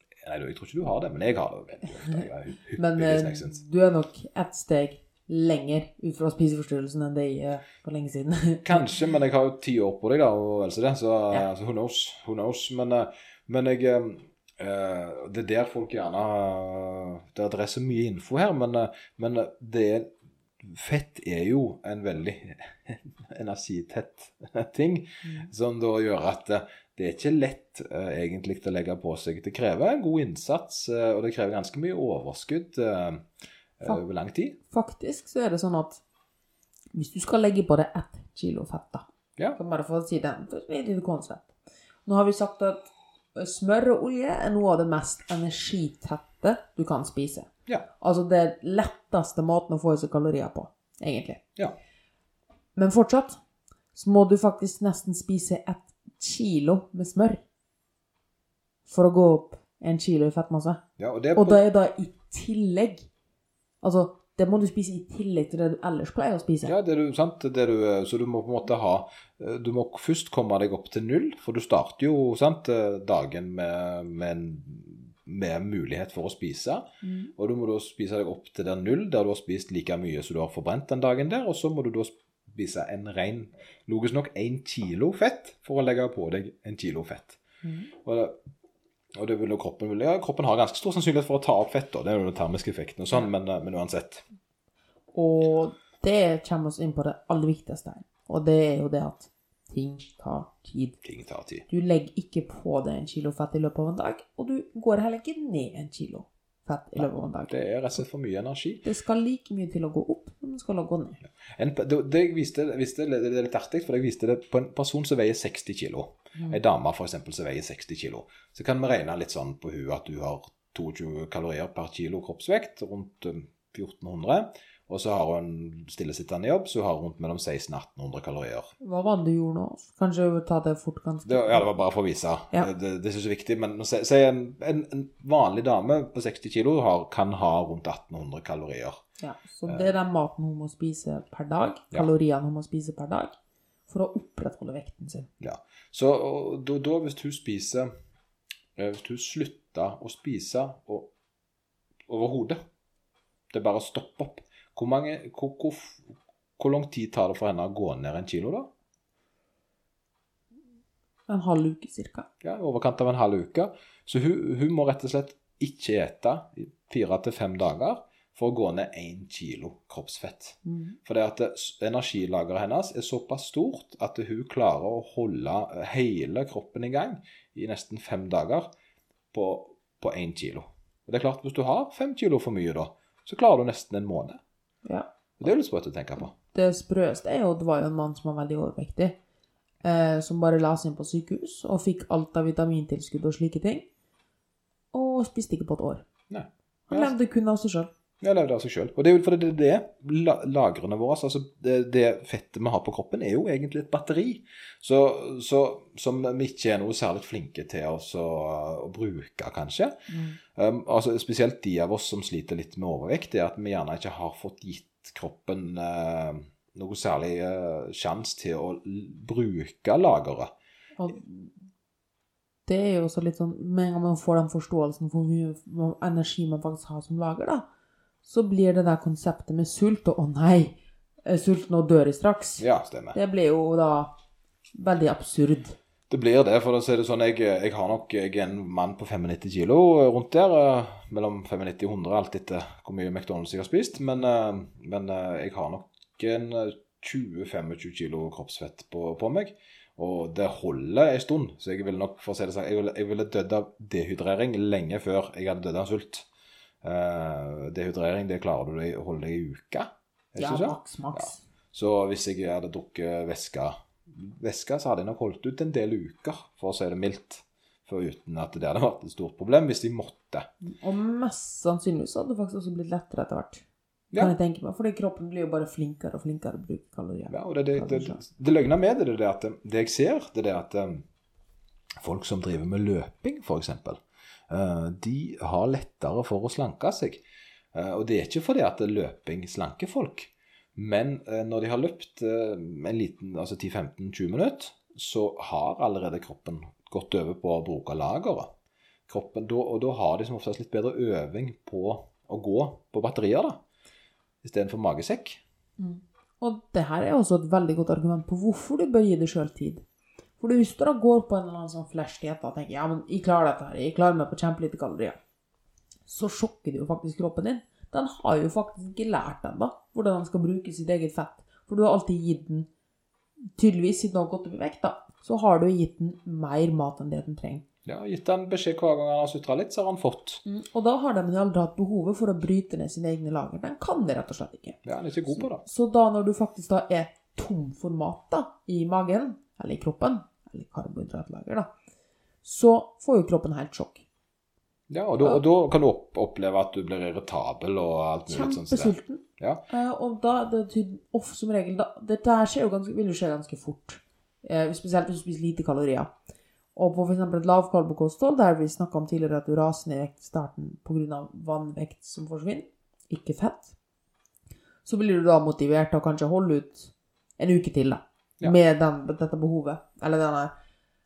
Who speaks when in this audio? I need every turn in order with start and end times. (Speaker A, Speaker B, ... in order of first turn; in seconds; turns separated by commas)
Speaker A: 0.2-3.6, Speaker B: 2.8-8.8, Speaker A: 8.7-20.1, Speaker A: 20.6-33.3, Speaker A: 33.8-34.6, Speaker B: 34.7-36.0, Speaker B: 36.9-41.5, Speaker B: 42.0-51.4, Speaker B: 52.8-53.4, Speaker B: 53.9-57.4, Speaker B: 58.9-60.8, Speaker A: 61.0-61.6, Speaker B: 61.4-63.1, Speaker B: 63.8-66.7, Speaker A: 66.6-87.4, Speaker B: 77.0-77.3, Speaker B: 87.6-87.9, Speaker A: 88.0-88.4, Speaker A: 89.2-94.2, Speaker B: 95.1-101.0, Speaker A: 101.0-101.7, Speaker B: 101.7-107.5, Speaker A: 107.0-108.8, Speaker B: 108.8-111.2, Speaker A: 111.6-128.7, Speaker B: 128.8-131.7, Speaker A: 131.2-139.0, Speaker B: 139.2-143.4, Speaker A: 139.7-139.9, Speaker B: 143.9-145.3, Speaker A: 145.4-147.9, Speaker A: 148.8-151.1, Speaker A: 152.1-152.6, Speaker A: 153.5-158.7, Speaker B: 161.3-162.3, Speaker A: 162.4-178.7, Speaker B: 170.7-171.0, Speaker A: 179.3-184.4, Speaker B: 184.8-185.1, Speaker A: 185.4-186.3, Speaker B: 186.3-189.2, Speaker B: 189.8-193.9, Speaker B: 194.9-196.1, Speaker A: 196.3-197.1, Speaker B: 196.9-197.9, Speaker A: 198.2-220.5, Speaker B: 210.1-210.4, Speaker B: 221.0-221.6, Speaker B: 222.7-227.7, Speaker B: 228.2-234.1, Speaker A: 232.6-233.2, Speaker B: 234.7-235.8, Speaker A: 236.1-256.3, Speaker A: 256.8-270.5, Speaker B: 260.4-261.4, Speaker B: 270.6-273.6, Speaker B: 274.2-278.2, Speaker A: 277.3-281.1, Speaker A: 282.0-287.2, Speaker A: 287.7-298.5, Speaker A: 299.1-303.6, Speaker A: 304.4-305.4, Speaker B: 305.8-309.8, Speaker B: 310.4-315.2, Speaker B: 316.1-322.7, Speaker B: 323.6-327.7, Speaker A: 327.9-330.4, Speaker B: 330.4-334.8, Speaker A: 334.9-335.6, Speaker B: 335.4-341.7, Speaker B: 342.4-344.0, Speaker A: 344.9-349.6, Speaker B: 348.3-356.1, Speaker B: 356.8-363.7, Speaker B: 364.9-370.5